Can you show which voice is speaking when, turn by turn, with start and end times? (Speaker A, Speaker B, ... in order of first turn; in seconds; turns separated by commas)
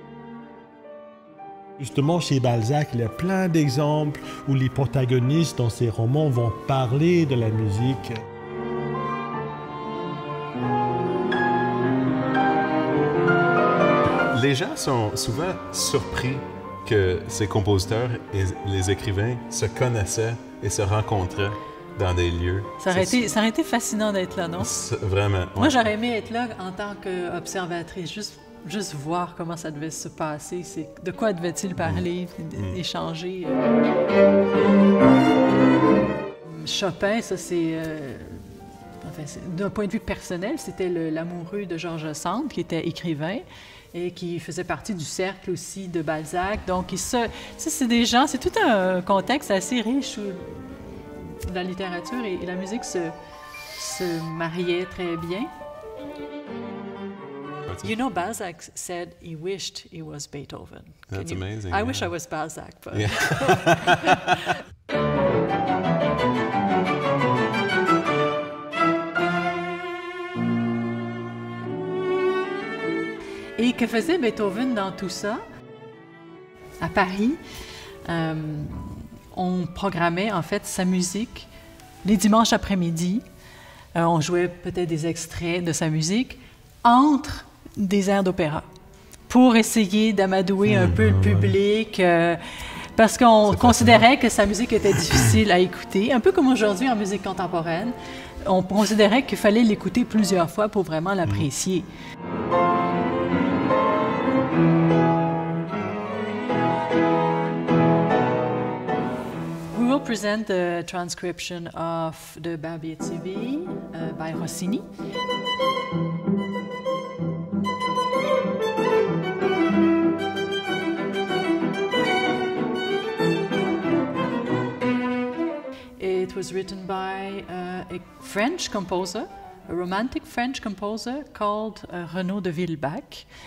Speaker A: 1.8-8.2, Speaker B: 14.3-23.3, Speaker C: 22.8-24.7, Speaker B: 24.6-25.7, Speaker C: 25.6-33.6, Speaker B: 31.8-32.0, Speaker C: 36.5-53.1, Speaker C: 53.8-55.5, Speaker C: 57.8-64.1, Speaker B: 61.1-62.1, Speaker B: 62.9-64.2, Speaker C: 73.6-75.4, Speaker C: 76.8-77.4, Speaker C: 78.0-81.5, Speaker C: 82.0-83.2, Speaker C: 84.0-88.7, Speaker C: 89.3-101.9, Speaker B: 90.7-91.5, Speaker B: 93.5-94.0, Speaker C: 109.7-114.8, Speaker C: 126.0-133.3